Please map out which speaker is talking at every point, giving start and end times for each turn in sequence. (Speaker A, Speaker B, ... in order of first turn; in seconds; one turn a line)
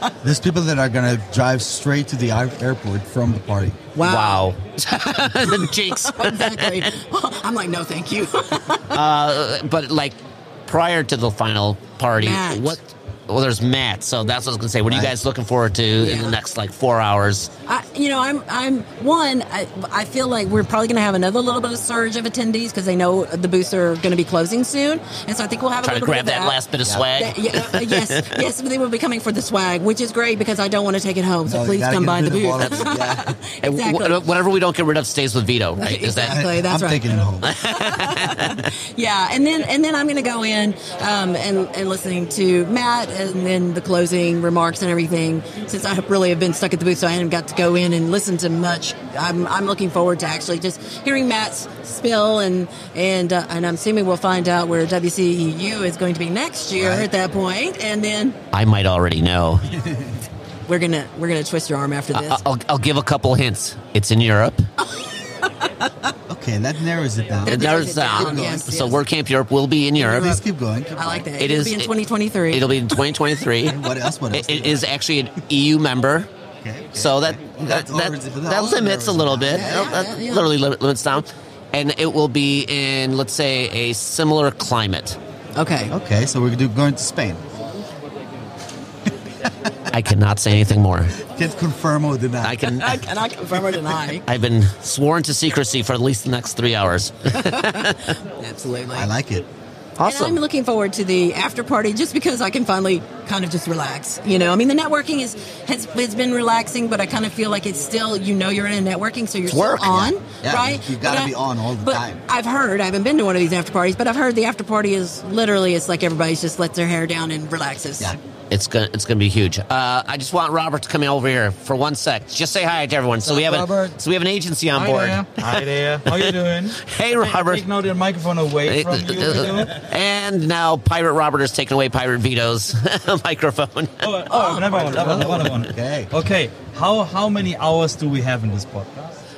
Speaker A: 0.2-3.8
Speaker B: 3.9-4.5
Speaker C: 4.0-6.8
Speaker B: 5.2-9.0
Speaker C: 8.9-17.5
Speaker B: 12.2-12.8
Speaker A: 14.9-15.2
Speaker B: 16.0-16.4
Speaker B: 17.7-26.6
Speaker C: 25.8-28.4
Speaker B: 27.2-34.2
Speaker A: 31.4-33.4
Speaker C: 33.6-36.4
Speaker B: 35.8-58.4
Speaker A: 36.2-37.5
Speaker C: 37.5-38.6
Speaker A: 56.8-57.1
Speaker C: 58.5-59.6
Speaker A: 59.6-60.2
Speaker B: 60.7-62.4
Speaker C: 62.1-64.7
Speaker B: 64.8-65.9
Speaker A: 66.3-68.7
Speaker B: 67.4-69.0
Speaker C: 67.5-70.3
Speaker A: 70.0-71.3
Speaker B: 70.0-70.4
Speaker B: 71.0-73.0
Speaker C: 71.4-71.9
Speaker C: 72.5-73.8
Speaker A: 73.7-74.9
Speaker C: 74.3-76.3
Speaker A: 76.6-80.0
Speaker C: 76.9-85.2
Speaker B: 79.5-80.5
Speaker B: 85.5-85.9
Speaker A: 85.9-87.4
Speaker A: 89.4-89.7
Speaker C: 89.9-91.1
Speaker A: 91.2-92.7
Speaker C: 92.4-93.0
Speaker B: 92.7-94.2
Speaker C: 94.2-98.1
Speaker B: 97.3-99.1
Speaker A: 98.9-99.5
Speaker C: 100.0-100.4
Speaker B: 100.0-118.2
Speaker C: 109.5-110.1
Speaker A: 109.9-112.2
Speaker C: 118.5-127.6
Speaker A: 123.2-124.0
Speaker D: 124.7-129.8
Speaker C: 128.7-134.3
Speaker D: 134.0-139.2
Speaker B: 134.3-135.1
Speaker A: 134.8-136.1